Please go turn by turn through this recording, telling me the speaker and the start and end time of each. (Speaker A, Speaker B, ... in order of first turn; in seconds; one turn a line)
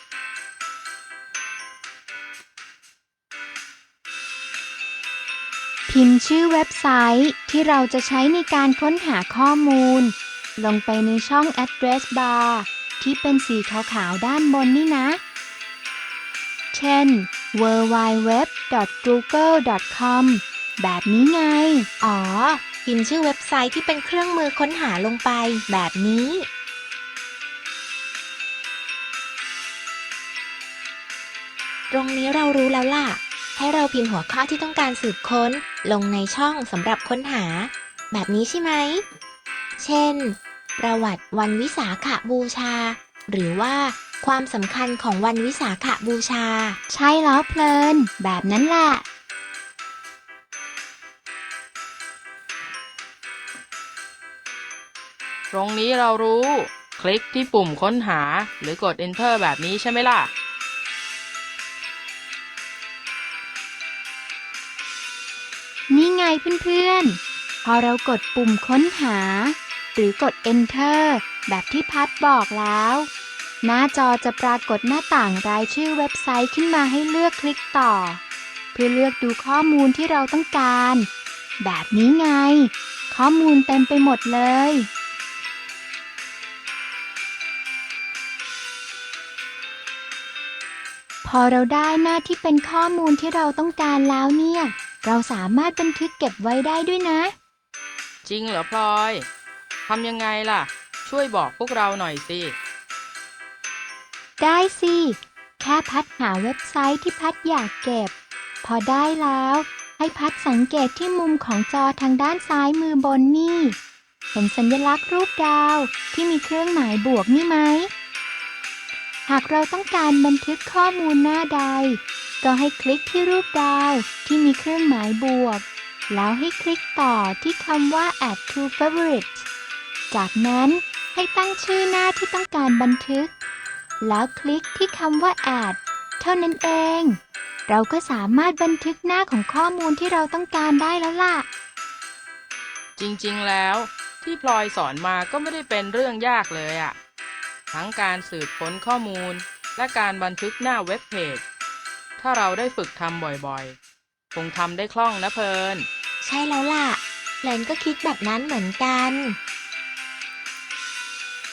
Speaker A: 5.9-15.2
Speaker A: 16.7-21.9
Speaker B: 22.0-26.5
Speaker B: 31.9-39.1
Speaker B: 39.8-46.8
Speaker A: 46.9-49.0
Speaker C: 55.5-60.3
Speaker A: 65.9-73.1
Speaker A: 73.6-78.2
Speaker A: 78.7-81.1
Speaker A: 81.6-84.9
Speaker A: 91.2-97.3
Speaker C: 98.2-99.3
Speaker C: 99.9-102.5
Speaker A: 104.4-108.1
Speaker A: 108.6-113.8
Speaker A: 114.3-117.9
Speaker A: 119.3-129.5
Speaker A: 130.1-133.3
Speaker A: 134.0-141.5
Speaker C: 143.0-147.0
Speaker C: 147.7-151.4
Speaker C: 152.2-153.8
Speaker C: 154.3-155.9
Speaker B: 156.2-159.4